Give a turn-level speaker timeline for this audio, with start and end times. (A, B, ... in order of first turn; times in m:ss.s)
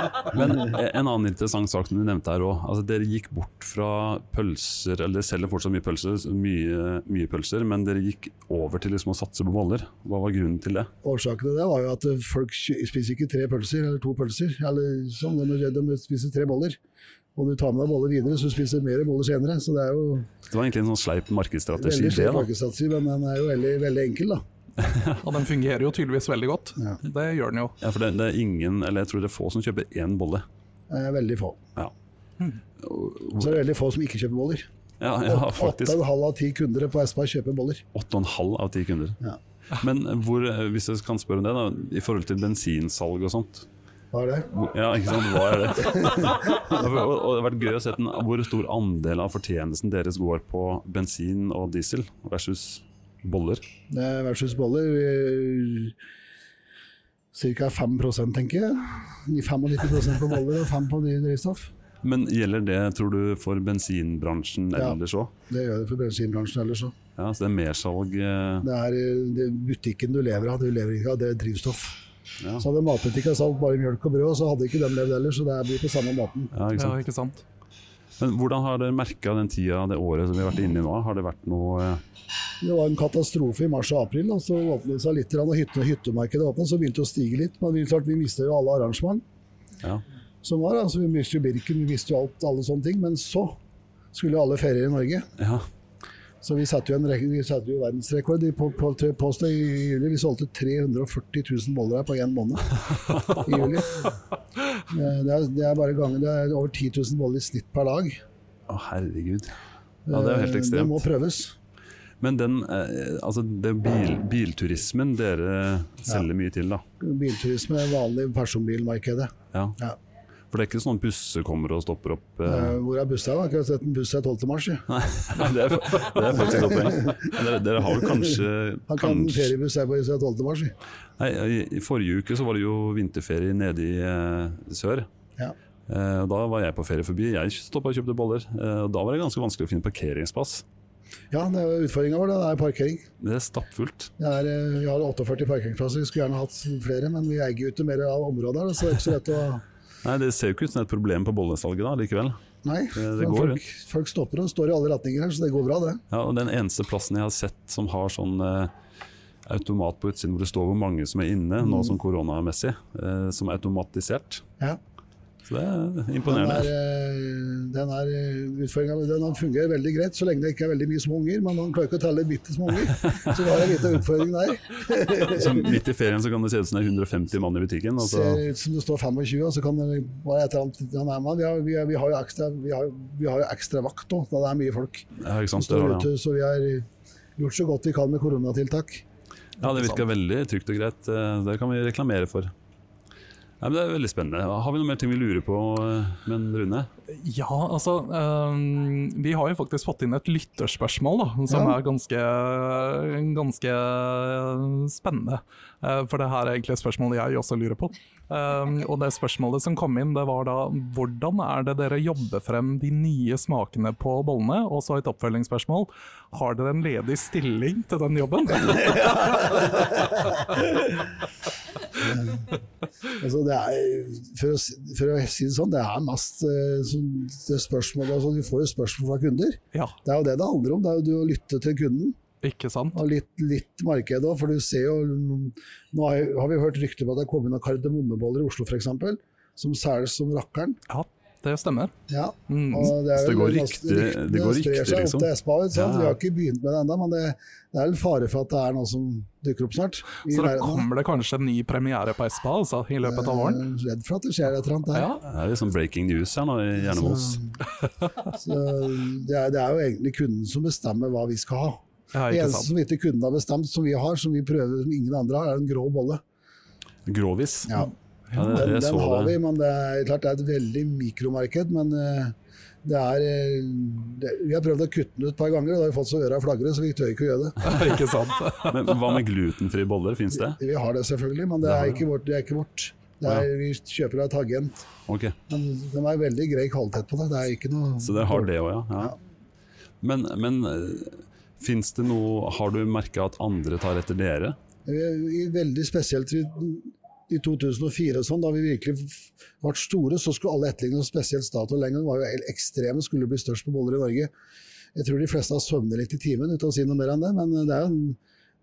0:00.3-0:10.9 A
0:11.0-0:16.8 B
0:17.4-0:20.3 B
0:20.5-0:22.5 A
0:21.8-0:24.4 B
0:24.8-0:25.2 A
0:25.2-0:27.8 C
0:27.8-0:30.4 A
0:30.9-0:31.6 B
0:32.8-0:33.6 A
0:33.4-0:34.7 B
0:35.0-0:36.0 A
0:35.3-0:37.8 B
0:37.9-0:39.2 A
0:39.7-0:43.7 A
0:44.1-0:44.5 B
0:44.5-0:53.6 A
0:45.9-0:46.7 B
0:53.9-0:56.0 B
0:57.3-1:01.7 B
1:02.0-1:05.3 A
1:04.8-1:07.0 B
1:07.2-1:08.7 A
1:08.6-1:12.0 B
1:12.4-1:12.7 A
1:12.6-1:16.5 B
1:16.5-1:17.0 A
1:16.8-1:17.4 C
1:18.2-1:22.0 A
1:22.6-1:29.2 B
1:30.4-1:33.6 B
1:34.1-1:35.3 B
1:35.4-1:35.6 A
1:36.4-1:42.8 B
1:43.1-1:43.4 A
1:43.3-1:44.1 B
1:44.9-1:48.2 B
1:48.7-1:51.0 A
1:50.1-1:51.6 B
1:52.2-1:56.8 A
1:57.0-2:00.0 B
2:00.5-2:02.8 A
2:02.4-2:04.9 B
2:04.9-2:09.5 A
2:06.3-2:07.3 B
2:08.9-2:10.8 B
2:11.2-2:15.1 A
2:15.9-2:20.6 A
2:21.3-2:23.1 B
2:23.2-2:24.1 A
2:24.2-2:29.6 B
2:30.0-2:32.4 A
2:32.6-2:36.0 B
2:32.9-2:33.6 A
2:36.1-2:38.7 A
2:39.5-2:44.4 A
2:41.6-2:42.0 B
2:45.4-2:46.7 A
2:46.2-2:55.7 B
2:55.3-2:58.4 A
2:58.0-3:09.0 B
3:05.2-3:06.1 A
3:09.6-3:12.5 A
3:09.6-3:10.0 C
3:13.6-3:16.9 A
3:17.1-3:39.8 C
3:21.5-3:21.8 B
3:39.4-3:40.7 B
3:42.0-3:42.5 B
3:43.2-3:52.2 B
3:52.4-3:53.0 C
3:52.9-4:00.8 B
4:00.9-4:01.9 C
4:02.1-4:10.9 B
4:02.5-4:02.9 C
4:03.0-4:06.2 A
4:10.3-4:13.6 C
4:13.0-4:15.2 B
4:14.9-4:15.2 C
4:15.2-4:17.4 A
4:16.8-4:17.6 B
4:18.3-4:26.2 B
4:22.1-4:22.7 C
4:27.1-4:27.8 A
4:27.7-4:27.9 B
4:28.3-4:28.6 C
4:28.3-4:29.4 A
4:28.5-4:37.9 B
4:37.6-4:39.2 C
4:38.6-4:40.6 A
4:40.4-4:44.9 B
4:41.6-4:42.0 A
4:45.1-4:45.4 A
4:45.5-4:49.2 B
4:48.0-4:49.2 A
4:50.0-4:54.6 A
4:54.9-5:04.3 B
5:05.0-5:08.2 B